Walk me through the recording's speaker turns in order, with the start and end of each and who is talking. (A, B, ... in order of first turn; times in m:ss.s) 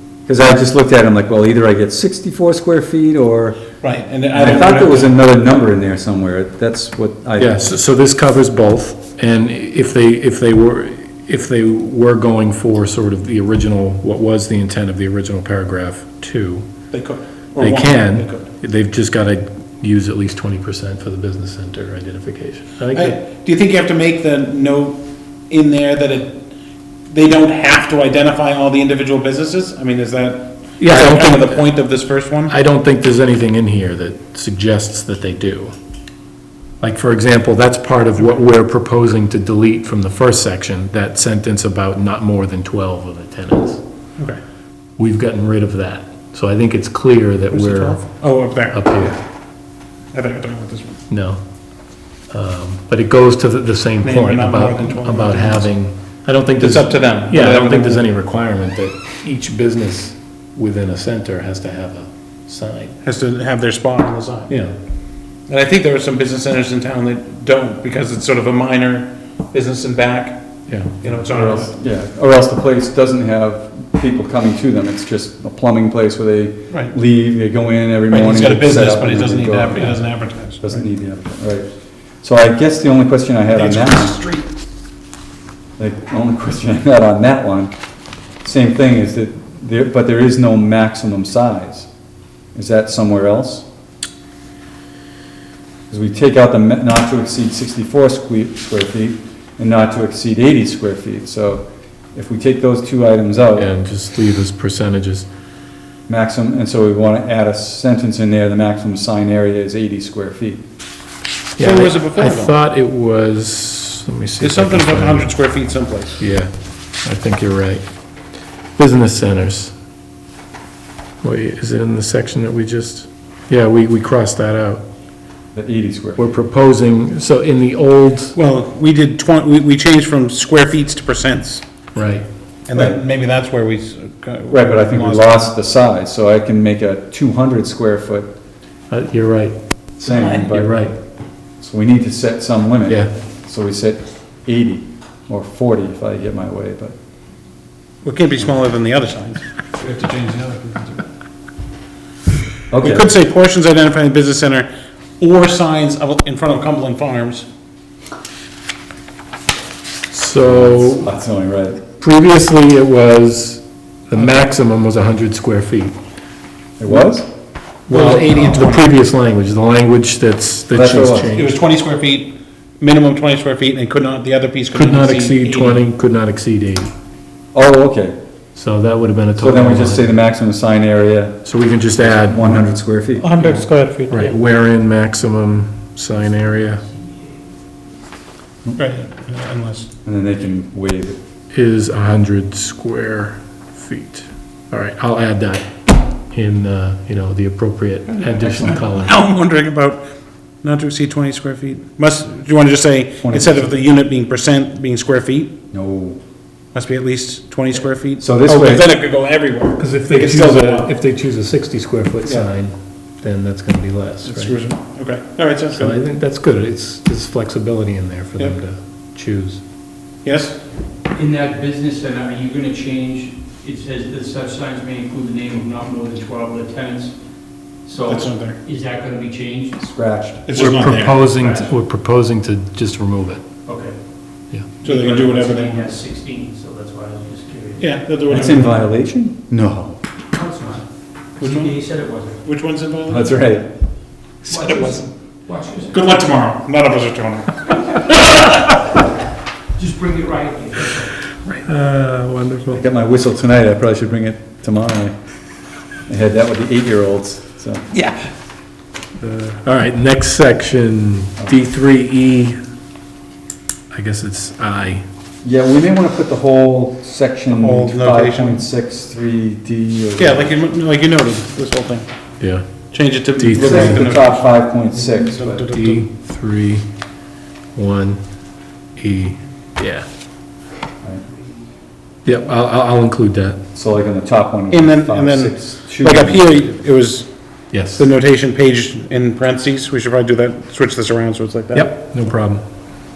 0:00.3-0:03.6 A
0:03.8-0:05.2 B
0:04.3-0:07.6 A
0:07.4-0:16.6 C
0:16.9-0:18.5 B
0:17.6-0:23.2 C
0:22.9-0:26.5 B
0:27.1-0:32.5 B
0:30.8-0:31.5 C
0:32.5-0:35.7 C
0:36.8-0:43.8 C
0:45.0-0:49.2 C
0:47.5-0:49.1 B
0:50.1-0:51.0 B
0:51.1-0:51.4 C
0:52.3-1:03.0 C
0:54.0-0:55.7 B
0:56.6-0:58.0 B
1:03.0-1:04.6 B
1:05.5-1:10.4 B
1:10.7-1:11.0 C
1:11.0-1:11.7 B
1:11.2-1:19.9 A
1:18.1-1:20.8 B
1:20.6-1:21.7 A
1:22.2-1:24.2 A
1:23.5-1:24.5 B
1:25.8-1:27.7 A
1:28.4-1:31.9 A
1:32.5-1:33.6 A
1:35.9-1:43.7 A
1:43.6-1:45.3 C
1:46.1-1:50.6 A
1:51.6-1:55.3 C
1:51.6-1:52.5 B
1:54.4-1:56.2 B
1:56.2-1:56.5 C
1:57.0-1:57.8 C
1:58.8-1:59.7 C
2:01.2-2:04.8 C
2:05.5-2:06.3 A
2:06.2-2:08.3 C
2:08.3-2:11.7 B
2:11.9-2:12.2 C
2:12.7-2:15.5 B
2:14.5-2:18.3 A
2:18.9-2:19.5 C
2:20.0-2:20.9 A
2:20.5-2:20.9 C
2:21.6-2:26.9 A
2:28.0-2:31.0 B
2:32.7-2:33.1 A
2:32.8-2:34.7 B
2:35.2-2:37.5 B
2:40.1-2:41.1 C
2:40.4-2:41.8 A
2:41.9-2:45.9 C
2:46.8-2:47.3 A
2:47.9-2:51.6 C
2:47.9-2:49.0 B
2:50.7-2:51.3 A
2:51.3-2:55.8 B
2:54.7-2:56.9 C
2:57.5-2:58.2 A
2:58.5-3:00.1 C
2:59.4-3:01.4 A
3:01.4-3:02.6 C
3:02.0-3:03.4 A
3:03.2-3:04.3 B
3:03.4-3:06.8 C
3:08.8-3:09.9 B
3:10.0-3:11.2 A
3:11.5-3:15.7 C
3:16.3-3:19.1 C
3:18.3-3:18.8 A
3:18.6-3:20.1 B
3:20.6-3:25.5 B
3:23.2-3:23.7 A
3:25.7-3:26.2 A
3:26.7-3:30.9 B
3:28.2-3:28.9 A
3:29.8-3:34.6 C
3:34.2-3:36.0 B
3:35.7-3:39.6 C
3:40.2-3:40.6 B
3:41.1-3:47.2 D
3:47.8-3:49.8 D
3:48.1-3:48.6 B
3:49.8-3:51.0 A
3:50.5-3:51.2 B
3:50.6-3:53.4 C
3:51.3-3:51.7 D
3:53.6-3:54.0 D
3:54.8-3:55.9 B
3:54.8-3:57.9 D
3:57.8-3:58.8 B
3:58.3-4:00.0 A
4:00.3-4:02.4 D
4:01.4-4:01.8 B
4:02.4-4:03.3 B
4:03.1-4:03.7 A
4:04.5-4:05.9 D
4:04.5-4:05.1 B
4:05.9-4:08.6 B
4:09.8-4:11.2 D
4:11.6-4:12.8 C
4:12.7-4:15.2 A
4:16.1-4:17.8 A
4:17.9-4:18.2 B
4:19.3-4:22.6 C
4:23.9-4:25.0 C
4:25.4-4:30.5 A
4:27.5-4:28.6 B
4:30.2-4:32.1 B
4:32.4-4:32.6 C
4:32.9-4:36.1 B
4:33.4-4:34.0 C
4:33.6-4:35.7 A
4:35.7-4:36.8 C
4:37.7-4:38.2 C
4:39.0-4:40.0 C
4:42.2-4:43.6 C
4:43.7-4:46.8 A
4:44.7-4:47.3 B
4:47.7-4:48.0 C
4:47.9-4:51.9 B
4:51.7-4:52.6 C